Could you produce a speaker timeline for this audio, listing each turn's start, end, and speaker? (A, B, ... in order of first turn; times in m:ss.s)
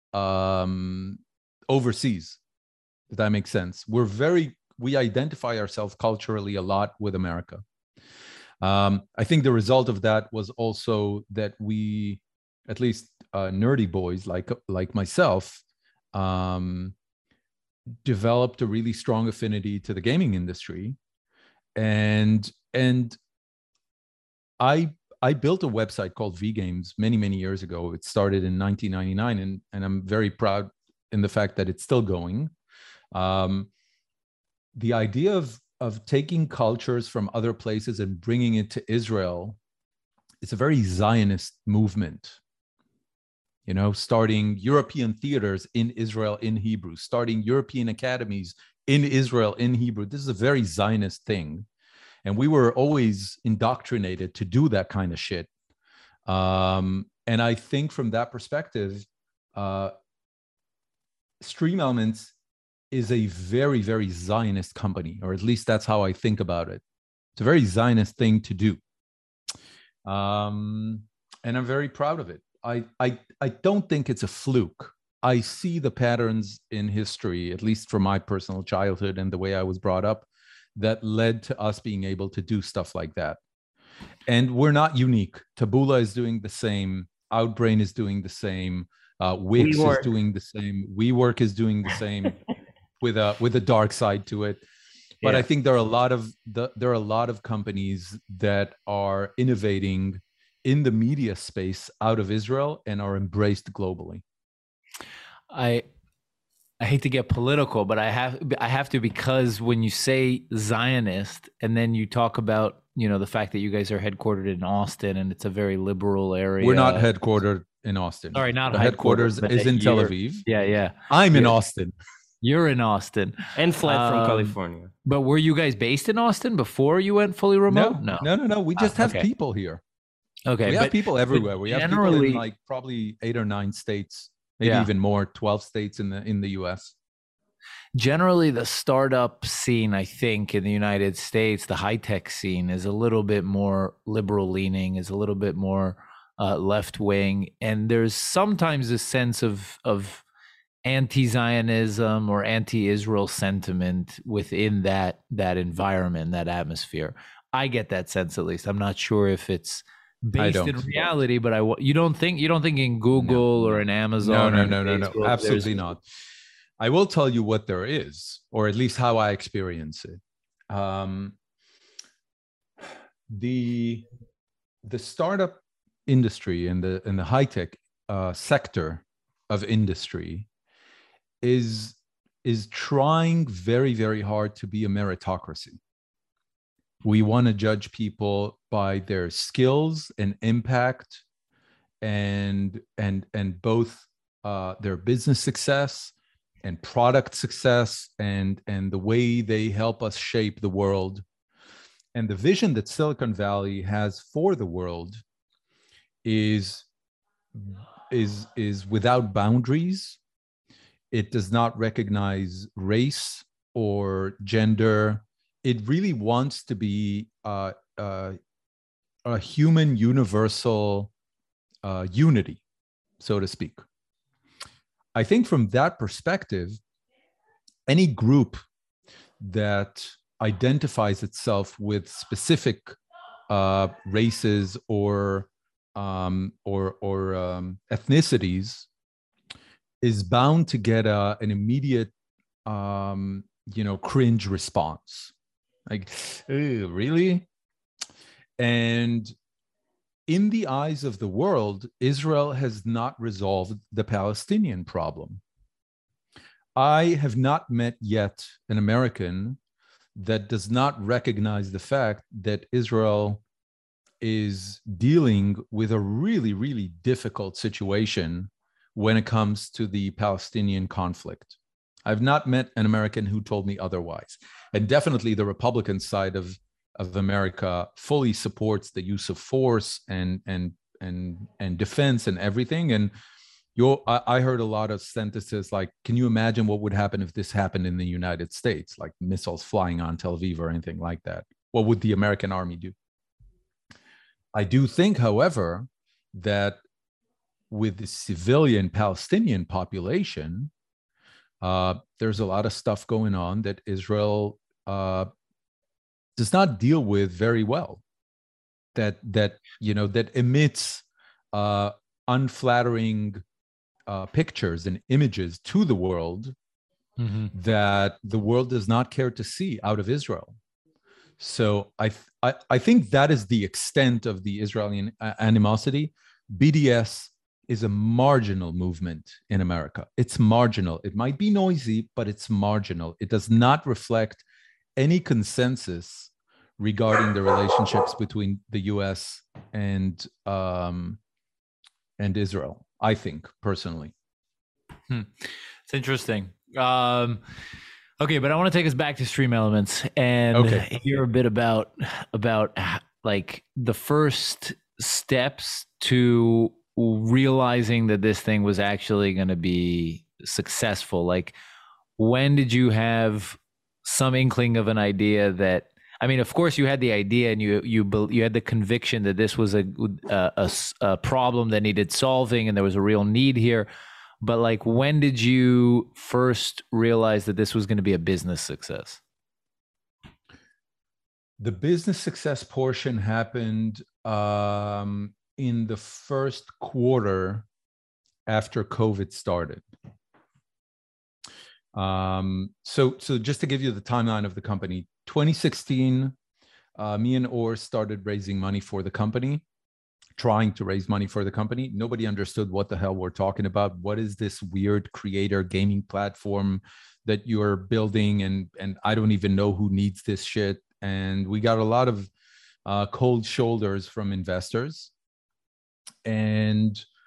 0:00.1-0:02.4 A
0:03.1-0:07.6 A
0:08.6-0:15.6 A
0:16.1-0:16.9 A
0:18.0-0:21.0 A
0:21.8-0:23.2 A
0:24.6-0:32.5 A
0:33.1-0:33.7 A
0:34.7-0:39.6 A
0:40.4-0:42.4 A
0:43.6-0:51.6 A
0:52.2-0:55.5 A
0:56.2-0:59.9 A
1:01.4-1:02.3 A
1:02.9-1:06.8 A
1:07.4-1:08.8 A
1:10.0-1:23.4 A
1:24.2-1:32.4 A
1:29.6-1:30.1 B
1:33.0-1:34.6 A
1:35.2-1:44.2 A
1:45.5-1:45.8 C
1:46.8-1:57.1 C
1:56.6-2:00.4 A
1:58.3-2:01.6 C
2:01.1-2:01.9 A
2:02.4-2:04.5 C
2:03.5-2:04.9 B
2:05.0-2:09.3 C
2:07.7-2:09.8 A
2:10.5-2:12.4 C
2:10.6-2:16.9 A
2:14.6-2:14.9 C
2:17.9-2:30.2 C
2:30.8-2:45.6 C
2:40.4-2:40.8 A
2:43.1-2:43.4 A
2:44.2-2:46.0 A
2:45.2-2:45.5 B
2:46.8-2:51.4 A
2:53.3-2:54.0 A
2:54.8-3:00.5 A
3:01.4-3:05.8 A
3:07.0-3:11.2 A
3:12.0-3:21.2 A
3:22.1-3:25.2 A
3:26.2-3:26.9 A
3:27.5-3:30.2 A
3:31.1-3:38.4 A
3:39.2-3:41.1 A
3:41.8-3:42.6 A
3:43.2-3:43.8 A
3:45.1-3:46.8 A
3:47.9-3:48.6 A
3:49.4-3:52.9 A
3:53.5-3:58.9 A
4:00.0-4:02.1 A
4:02.6-4:05.3 A
4:05.9-4:07.5 A
4:08.6-4:09.3 A
4:10.3-4:15.4 A
4:16.8-4:19.6 A
4:20.1-4:23.4 A
4:24.2-4:43.1 A
4:43.8-4:52.9 A
4:54.5-4:56.8 A
4:57.7-5:00.7 A
5:01.6-5:05.3 A
5:06.4-5:08.0 A
5:08.9-5:13.4 A
5:14.1-5:16.5 A
5:17.2-5:17.5 C
5:17.5-5:20.6 A
5:21.4-5:34.4 A
5:35.0-5:41.2 A
5:42.2-5:44.1 A
5:45.1-5:47.4 C
5:48.2-6:01.5 C
5:50.5-5:50.9 A
6:02.2-6:13.9 C
6:14.4-6:19.2 C
6:21.6-6:27.6 A
6:28.5-6:29.8 A
6:31.9-6:36.3 A
6:37.0-6:39.6 A
6:40.4-6:52.3 A
6:52.8-6:55.1 A
6:56.2-6:57.0 A